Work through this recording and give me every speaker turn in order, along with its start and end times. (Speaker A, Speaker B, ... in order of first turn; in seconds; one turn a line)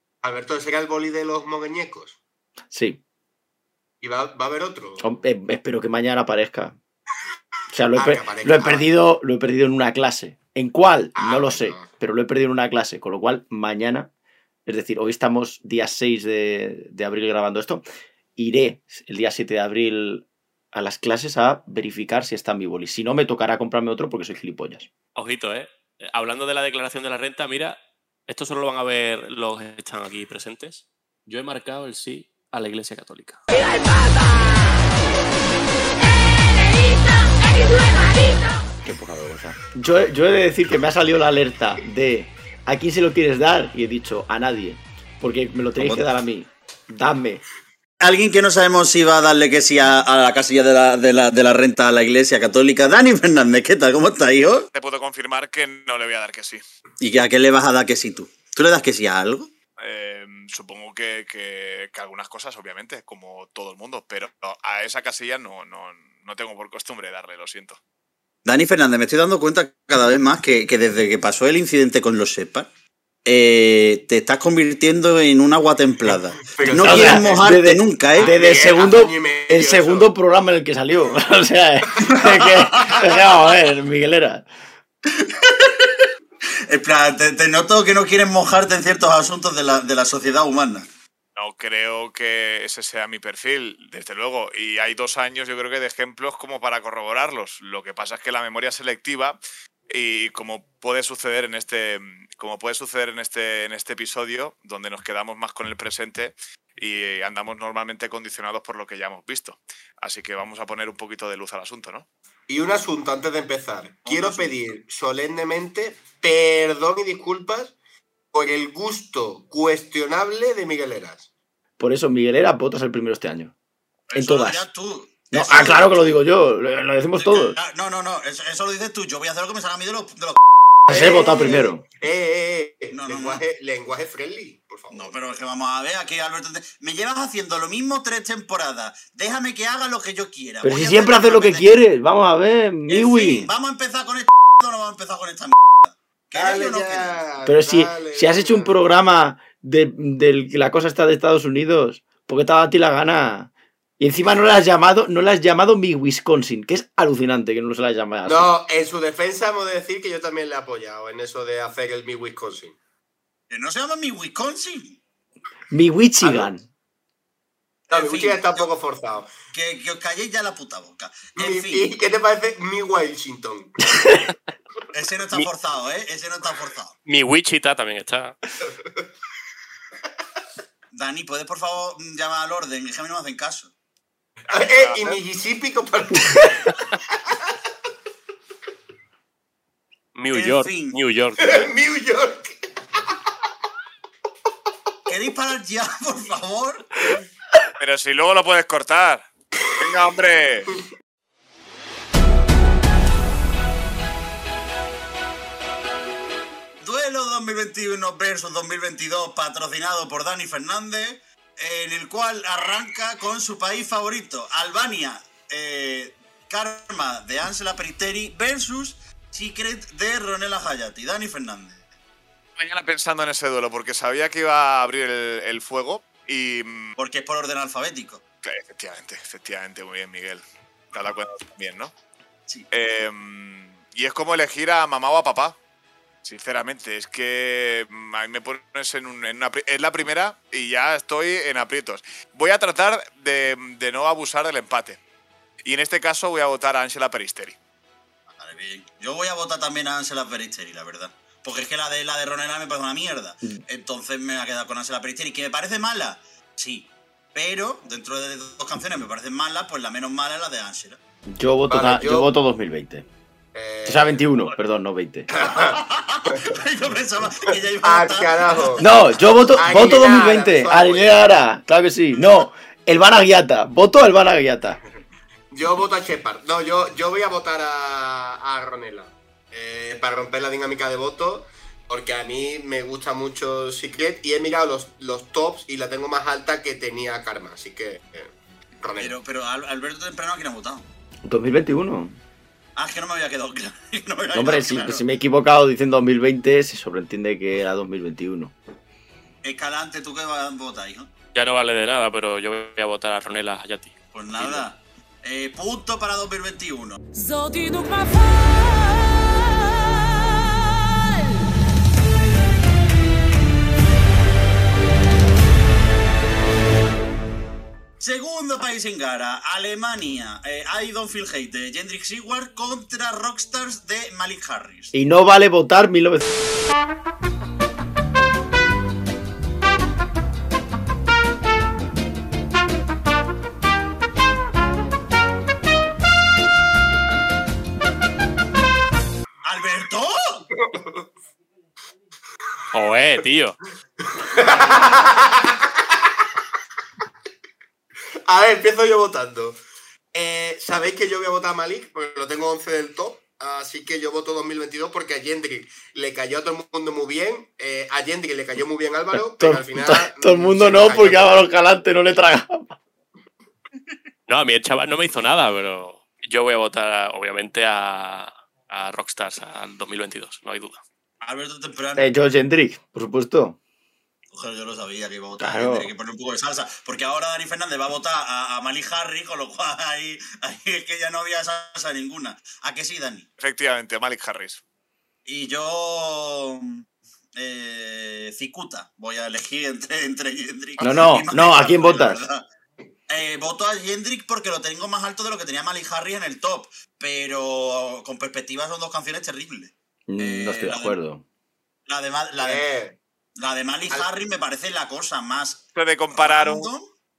Speaker A: 0.2-2.2
Speaker B: 2.7-3.0
Speaker A: 4.0-5.0
Speaker B: 5.0-6.8
Speaker B: 7.7-14.1
Speaker A: 7.9-8.8
Speaker A: 11.2-11.9
Speaker B: 14.7-17.8
Speaker B: 18.4-24.9
Speaker C: 25.1-33.4
Speaker D: 37.5-38.4
Speaker B: 38.8-47.4
Speaker E: 45.8-46.0
Speaker E: 48.0-54.7
Speaker F: 54.7-56.6
Speaker E: 57.0-59.5
Speaker F: 59.8-67.8
Speaker E: 68.4-72.7
Speaker E: 73.2-78.5
Speaker A: 76.4-77.4
Speaker B: 76.8-84.5
Speaker A: 78.2-80.1
Speaker E: 82.0-83.1
Speaker E: 85.1-86.0
Speaker E: 86.7-90.9
Speaker F: 91.3-112.1
Speaker A: 112.5-117.7
Speaker E: 114.0-114.5
Speaker A: 118.3-121.2
Speaker B: 121.8-123.5
Speaker E: 124.1-126.2
Speaker B: 124.1-124.7
Speaker B: 125.3-127.6
Speaker E: 127.2-130.4
Speaker B: 130.9-131.8
Speaker A: 130.9-135.1
Speaker E: 132.9-133.4
Speaker E: 134.9-141.8
Speaker B: 140.6-143.5
Speaker E: 142.9-147.2
Speaker A: 146.3-148.7
Speaker B: 147.4-158.5
Speaker A: 158.2-162.8
Speaker E: 163.5-165.0
Speaker B: 165.7-166.6
Speaker A: 166.2-166.5
Speaker E: 167.9-168.7
Speaker A: 167.9-169.3
Speaker E: 169.5-171.9
Speaker A: 171.4-173.9
Speaker E: 174.9-176.9
Speaker C: 177.1-178.3
Speaker A: 178.7-179.0
Speaker E: 180.9-183.7
Speaker F: 184.5-185.2
Speaker A: 184.5-186.8
Speaker C: 190.1-191.7
Speaker E: 190.3-191.0
Speaker A: 191.4-192.6
Speaker E: 195.1-196.9
Speaker F: 197.8-199.2
Speaker F: 199.8-200.7
Speaker E: 206.8-221.8
Speaker F: 222.6-226.9
Speaker E: 227.0-228.2
Speaker F: 228.4-231.9
Speaker F: 232.7-235.6
Speaker F: 236.2-245.0
Speaker F: 245.6-247.6
Speaker E: 248.3-261.0
Speaker B: 261.3-263.1
Speaker A: 261.7-262.3
Speaker A: 263.5-264.2
Speaker B: 263.8-265.3
Speaker A: 265.4-266.6
Speaker E: 265.4-268.9
Speaker A: 267.8-268.9
Speaker B: 268.8-274.8
Speaker A: 269.5-271.2
Speaker A: 275.5-288.3
Speaker A: 288.8-289.1
Speaker E: 289.0-290.8
Speaker B: 291.2-292.2
Speaker E: 292.8-295.0
Speaker B: 294.3-298.5
Speaker E: 299.4-301.1
Speaker C: 301.3-304.6
Speaker E: 304.1-307.0
Speaker D: 307.1-309.1
Speaker E: 318.0-324.9
Speaker B: 324.9-326.2
Speaker E: 339.4-340.5
Speaker A: 340.5-341.0
Speaker C: 342.7-343.6
Speaker A: 344.0-346.1
Speaker A: 348.2-349.6
Speaker A: 350.1-361.4
Speaker B: 359.1-362.8
Speaker C: 364.3-370.8
Speaker E: 371.2-372.1
Speaker B: 371.9-373.6
Speaker E: 374.3-383.3
Speaker B: 375.4-375.9
Speaker F: 383.4-384.6
Speaker E: 385.2-386.8
Speaker E: 387.4-392.4
Speaker B: 390.8-392.2
Speaker E: 393.1-400.9
Speaker B: 400.1-401.2
Speaker E: 401.9-402.6
Speaker A: 402.4-403.0
Speaker E: 403.4-406.9
Speaker F: 405.8-406.7